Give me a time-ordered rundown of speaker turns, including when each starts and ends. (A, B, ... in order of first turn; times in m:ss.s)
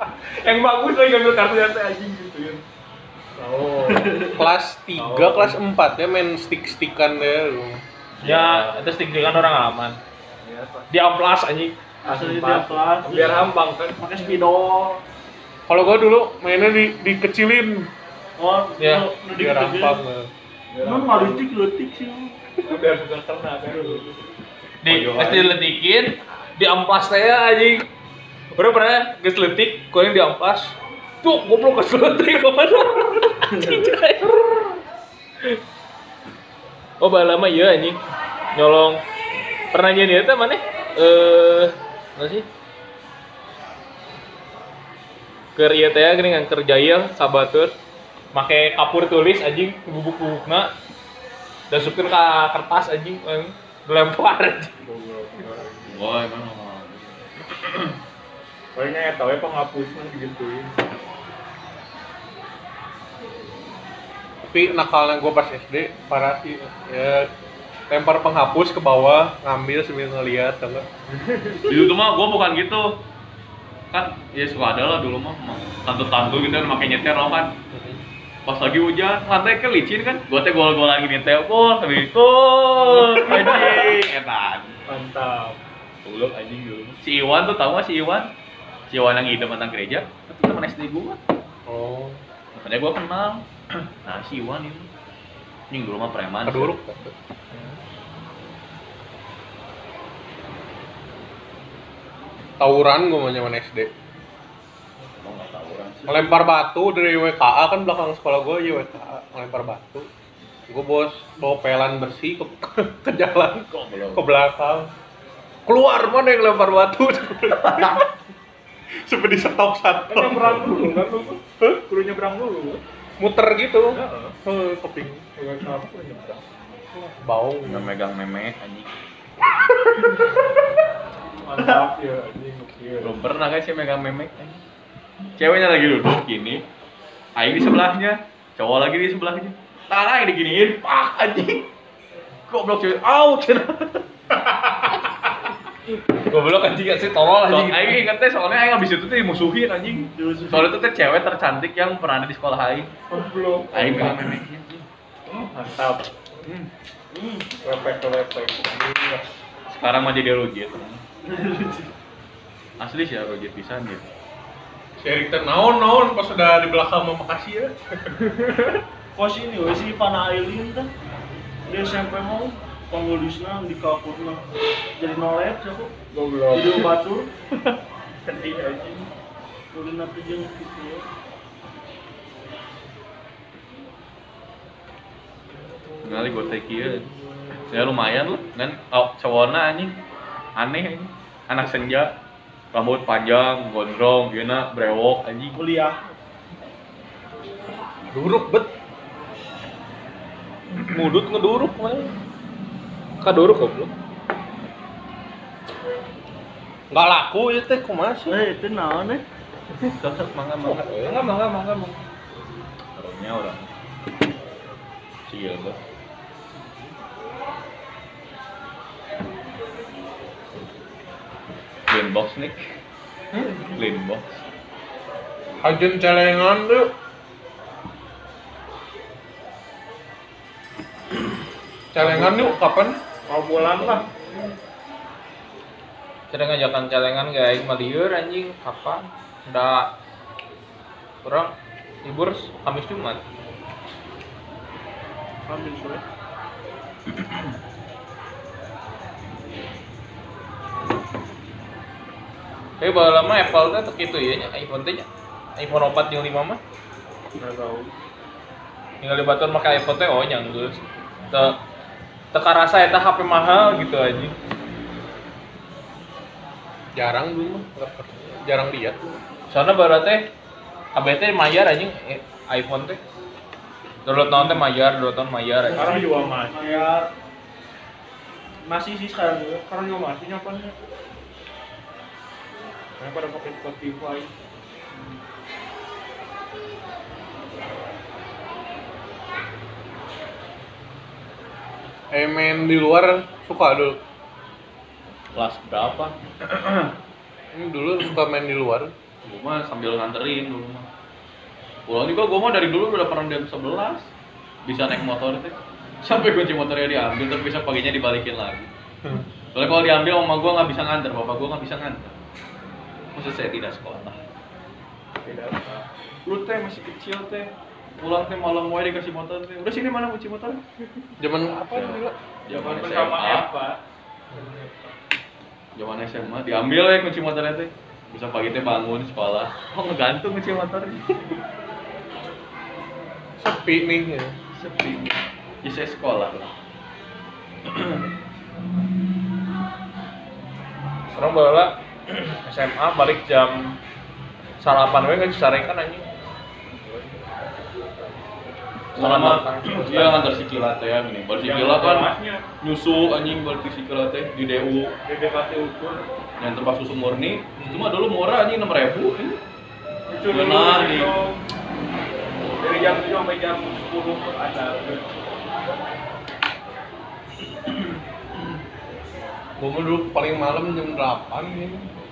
0:00.4-0:02.6 A
0:03.3-0:04.4 A
0:03.9-0:04.4 B
0:04.4-0:07.8 C
0:05.0-0:05.6 A
0:08.2-0:08.8 D
0:08.2-0:10.0 E
0:10.4-0:10.9 A
0:10.9-0:11.8 E
0:12.0-0:15.0 B
0:12.0-0:14.4 A
0:15.7-0:17.9 C
0:18.4-0:20.0 B
0:18.8-0:19.0 E
0:19.3-0:20.3 C
0:20.7-0:21.5 A
0:20.8-0:22.4 B
0:22.6-0:24.2 A
0:23.7-0:24.0 B
0:24.8-0:27.9 E
0:24.9-0:25.6 D
0:28.5-0:34.8 E
0:37.0-0:38.0 E
0:38.5-0:39.0 E
0:39.7-0:42.5 E
0:45.6-0:47.8 E
0:48.3-0:50.7 E
0:51.7-0:54.7 E
0:54.8-0:56.1 A
0:55.9-0:57.9 D
0:58.8-1:00.8 A
1:04.4-1:07.3 C
1:07.9-1:10.9 C
1:11.1-1:11.7 A
1:11.7-1:13.0 D
1:13.9-1:17.6 D
1:17.7-1:18.0 C
1:18.5-1:24.8 D
1:23.2-1:23.6 A
1:24.9-1:25.6 A
1:26.0-1:28.3 D
1:28.9-1:31.2 D
1:31.7-1:32.2 C
1:32.6-1:34.9 D
1:35.7-1:36.8 D
1:36.4-1:37.1 C
1:42.6-1:43.9 C
1:45.2-1:46.2 D
1:46.1-1:50.1 C
1:50.7-1:54.9 C
1:53.7-1:54.2 D
1:55.7-1:58.1 C
1:57.6-1:58.0 D
1:59.0-2:01.0 C
2:00.1-2:02.8 A
2:03.2-2:05.2 C
2:03.9-2:04.4 A
2:05.4-2:06.5 A
2:06.9-2:07.9 C
2:07.6-2:08.9 D
2:11.4-2:13.2 A
2:11.6-2:11.9 B
2:13.0-2:14.6 D
2:15.4-2:16.6 D
2:17.4-2:21.6 D
2:22.5-2:24.0 D
2:26.3-2:28.0 E
2:27.5-2:33.0 D
2:30.2-2:30.7 B
2:33.1-2:34.2 A
2:33.7-2:34.8 D
2:35.3-2:36.7 A
2:37.1-2:37.5 B
2:37.6-2:39.2 A
2:39.7-2:41.0 D
2:41.2-2:41.9 B
2:42.8-2:44.1 D
2:45.0-2:47.8 C
2:48.1-2:48.8 A
2:49.2-2:50.9 B
2:51.7-2:56.0 B
2:56.1-2:57.0 A
2:56.5-2:57.3 B
2:57.6-2:59.1 A
2:59.7-3:01.1 B
3:06.0-3:10.0 D
3:10.6-3:12.1 D
3:12.7-3:15.6 D
3:15.6-3:16.1 B
3:18.1-3:18.7 C
3:20.8-3:22.1 C
3:23.2-3:23.9 E
3:26.9-3:28.4 C
3:28.3-3:29.2 B
3:29.9-3:30.9 D
3:30.8-3:32.0 A
3:33.0-3:33.7 D
3:35.3-3:35.8 D
3:41.9-3:42.6 D
3:43.6-3:44.4 D
3:45.6-3:46.9 C
3:51.9-3:53.0 C
3:53.3-3:54.1 A
3:53.6-3:54.0 D
3:56.3-3:59.9 E
4:01.2-4:03.2 E
4:05.5-4:06.0 B
4:12.8-4:16.6 E
4:17.4-4:17.9 A
4:19.0-4:21.6 E
4:22.3-4:24.4 E
4:27.0-4:29.2 C
4:29.5-4:30.3 E
4:31.0-4:33.0 E
4:34.0-4:35.9 E
4:35.7-4:37.1 B
4:35.7-4:36.9 A
4:38.6-4:39.6 B
4:39.7-4:40.8 A
4:43.0-4:44.3 A
4:52.1-4:54.0 C
4:55.3-4:56.9 D
4:57.5-4:58.9 C
4:59.2-5:00.9 D
5:01.9-5:04.1 D
5:04.6-5:08.7 D
5:09.5-5:12.1 D
5:13.1-5:14.2 D
5:15.2-5:15.8 A
5:16.3-5:20.6 D
5:21.2-5:22.2 C
5:21.7-5:23.5 D
5:22.5-5:23.8 A
5:24.3-5:24.9 A
5:25.8-5:31.4 D
5:33.4-5:34.4 C
5:34.5-5:36.6 D
5:37.7-5:38.0 D
5:41.1-5:43.8 E
5:44.6-5:46.1 E
5:46.7-5:47.2 A
5:49.0-5:50.2 E
5:49.0-5:54.9 D
5:51.4-5:52.4 A
5:55.0-5:56.1 A
5:56.4-5:59.4 D
5:57.6-5:57.9 A
6:00.1-6:01.4 A
6:00.3-6:01.1 D
6:02.6-6:05.1 A
6:09.6-6:11.9 C